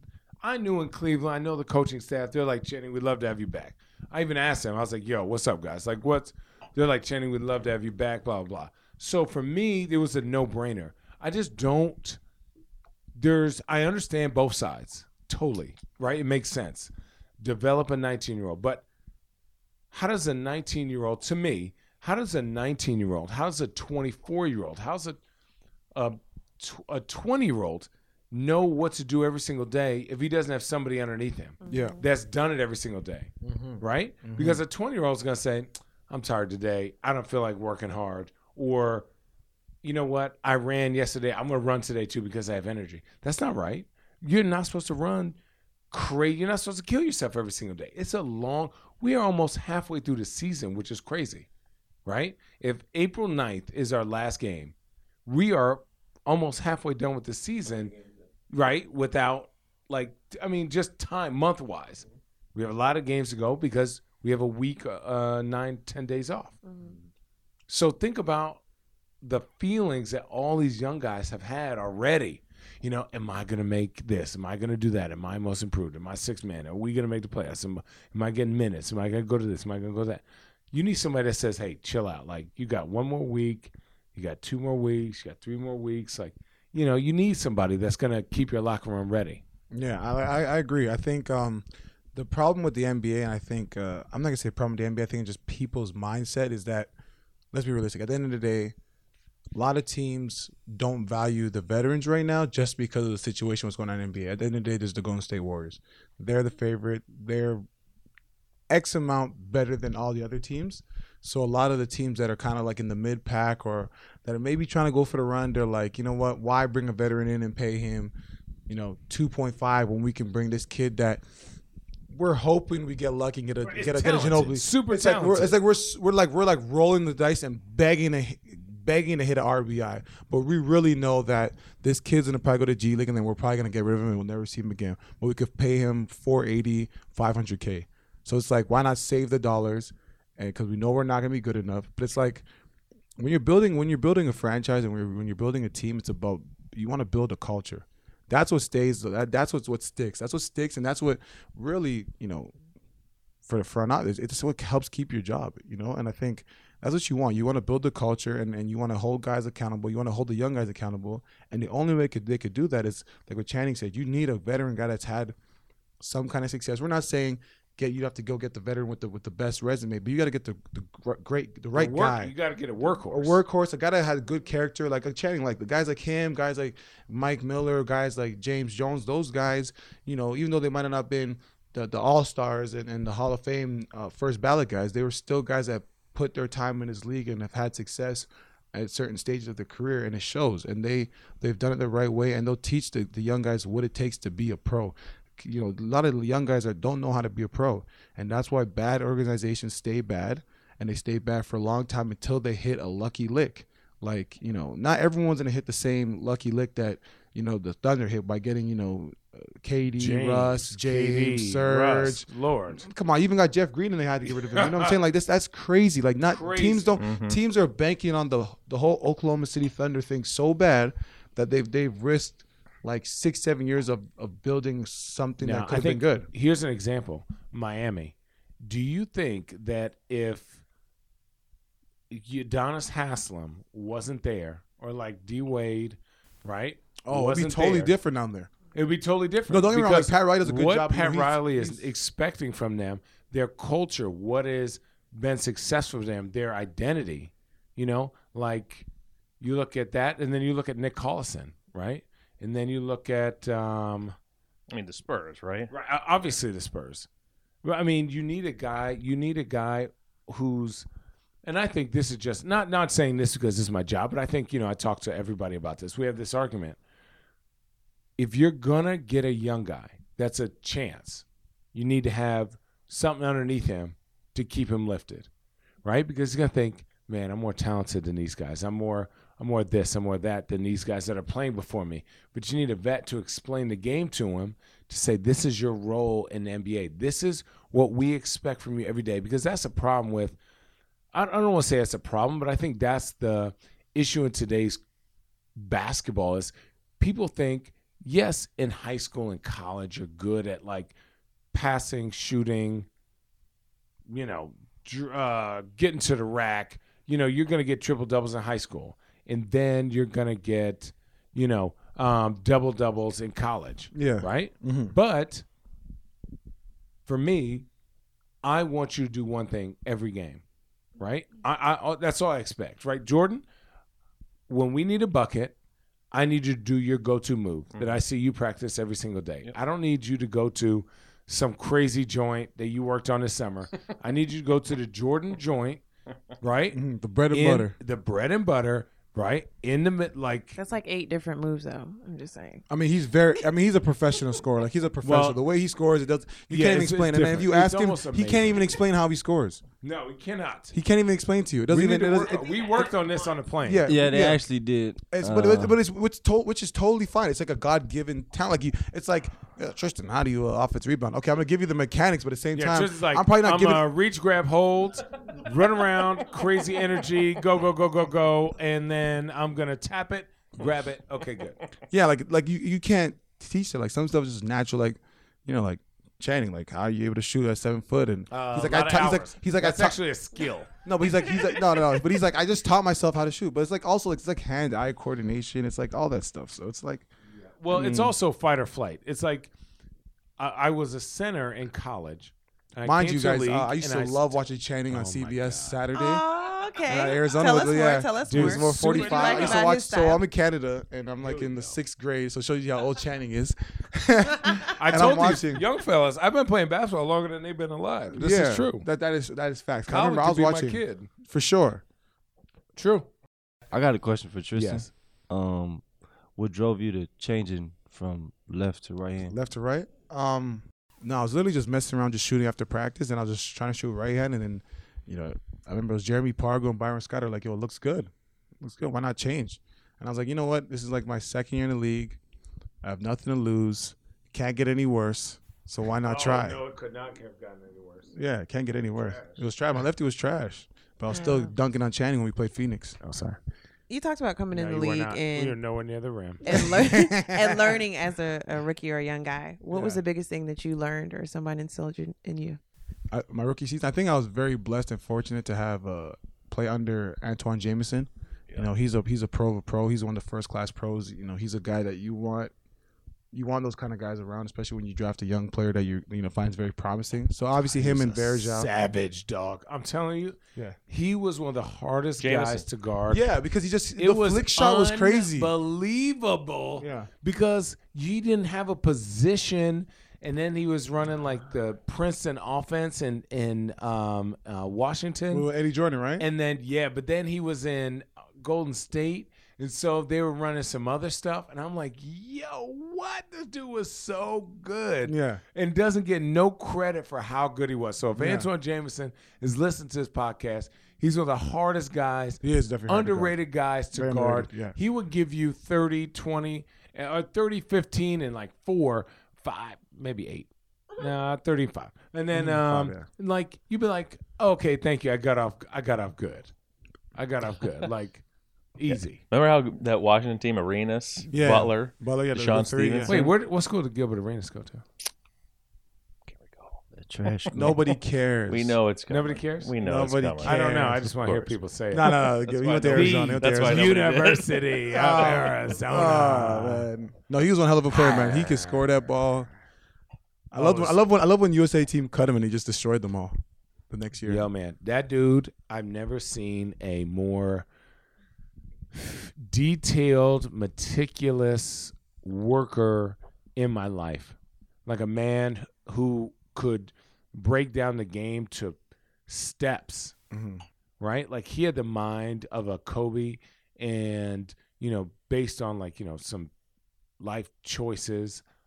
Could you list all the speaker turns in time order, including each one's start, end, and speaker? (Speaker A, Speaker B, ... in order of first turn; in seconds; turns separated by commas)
Speaker A: 0.4-12.2, Speaker A: 13.2-18.9, Speaker A: 19.9-25.2, Speaker A: 25.9-39.1, Speaker B: 31.6-32.0, Speaker C: 31.7-32.0, Speaker C: 33.4-34.6, Speaker A: 39.8-45.4, Speaker A: 45.9-51.5, Speaker A: 52.1-54.7, Speaker A: 55.3-58.0, Speaker A: 58.5-66.6, Speaker B: 66.7-66.9, Speaker A: 67.7-68.6, Speaker A: 69.2-89.4, Speaker C: 89.7-96.9, Speaker C: 97.5-98.7, Speaker C: 99.5-107.7, Speaker C: 108.7-118.1, Speaker C: 118.7-121.2, Speaker C: 122.1-142.4, Speaker A: 123.7-125.5, Speaker C: 143.2-152.5, Speaker C: 153.4-165.3, Speaker C: 166.0-172.3, Speaker A: 171.8-173.4, Speaker C: 173.1-226.3, Speaker A: 210.0-212.8, Speaker A: 214.4-214.9, Speaker A: 216.3-217.0, Speaker D: 217.0-217.4, Speaker A: 225.4-230.6, Speaker A: 232.1-237.9, Speaker C: 237.0-238.5, Speaker A: 238.7-248.9, Speaker C: 239.5-241.9, Speaker A: 249.4-254.2, Speaker D: 254.7-255.7, Speaker A: 255.7-257.1, Speaker A: 257.6-260.9, Speaker A: 261.4-266.8, Speaker A: 268.2-275.3, Speaker A: 275.8-290.4, Speaker A: 291.1-294.8, Speaker A: 295.6-300.9, Speaker A: 301.5-302.9, Speaker A: 304.1-315.4, Speaker C: 313.9-314.9, Speaker A: 317.1-317.7, Speaker A: 318.4-320.4, Speaker A: 321.0-323.4, Speaker A: 324.5-325.6, Speaker A: 326.1-335.8, Speaker A: 336.4-336.8, Speaker C: 336.7-337.7, Speaker A: 337.3-340.6, Speaker B: 340.6-342.6, Speaker C: 342.7-349.6, Speaker A: 345.0-345.4, Speaker A: 346.5-348.8, Speaker A: 349.8-350.7, Speaker C: 350.7-352.8, Speaker A: 351.7-353.9, Speaker C: 353.6-354.4, Speaker E: 353.9-355.8, Speaker C: 355.1-363.9, Speaker A: 362.5-371.6, Speaker C: 371.9-380.0, Speaker A: 378.3-380.7, Speaker C: 380.8-387.1, Speaker A: 387.6-389.5, Speaker C: 387.7-388.2, Speaker A: 390.4-394.3, Speaker C: 392.8-396.2, Speaker A: 394.9-395.8, Speaker B: 395.9-400.2, Speaker C: 396.9-405.6, Speaker A: 398.2-399.7, Speaker A: 401.2-401.8, Speaker A: 404.7-408.9, Speaker C: 408.1-411.8, Speaker A: 409.9-411.1, Speaker A: 412.8-413.1, Speaker E: 413.7-415.9, Speaker A: 414.5-414.9, Speaker E: 416.4-419.4, Speaker C: 419.3-432.2, Speaker C: 432.8-436.6, Speaker A: 436.0-438.1, Speaker C: 438.1-443.0, Speaker A: 439.0-439.4, Speaker B: 441.1-441.5, Speaker A: 443.0-443.4, Speaker B: 443.9-445.6, Speaker A: 444.5-446.8, Speaker B: 446.4-452.6, Speaker C: 446.5-447.8, Speaker C: 449.7-450.0, Speaker C: 453.1-462.5, Speaker C: 463.3-468.7, Speaker A: 467.6-473.2, Speaker D: 472.2-472.7, Speaker C: 473.1-475.5, Speaker A: 474.0-485.5, Speaker C: 476.8-477.1, Speaker C: 485.3-486.3, Speaker A: 486.2-516.5, Speaker C: 495.1-495.4, Speaker C: 498.1-498.5, Speaker C: 502.4-503.4, Speaker C: 503.9-504.8, Speaker C: 512.3-513.1, Speaker A: 517.2-518.2, Speaker A: 518.8-519.2, Speaker D: 518.9-523.3, Speaker C: 521.3-523.2, Speaker A: 523.1-524.9, Speaker D: 526.3-526.8, Speaker E: 526.9-527.8, Speaker C: 527.5-528.8, Speaker D: 528.5-531.6, Speaker A: 529.1-529.7, Speaker C: 529.8-531.2, Speaker A: 530.4-536.9, Speaker C: 531.9-534.0, Speaker D: 532.6-535.5, Speaker C: 534.9-539.5, Speaker A: 537.9-539.0, Speaker C: 540.5-543.4, Speaker A: 540.5-541.0, Speaker C: 543.9-544.5, Speaker A: 544.2-547.7, Speaker A: 548.9-560.1, Speaker C: 560.3-560.6, Speaker A: 561.0-566.5, Speaker A: 567.2-568.4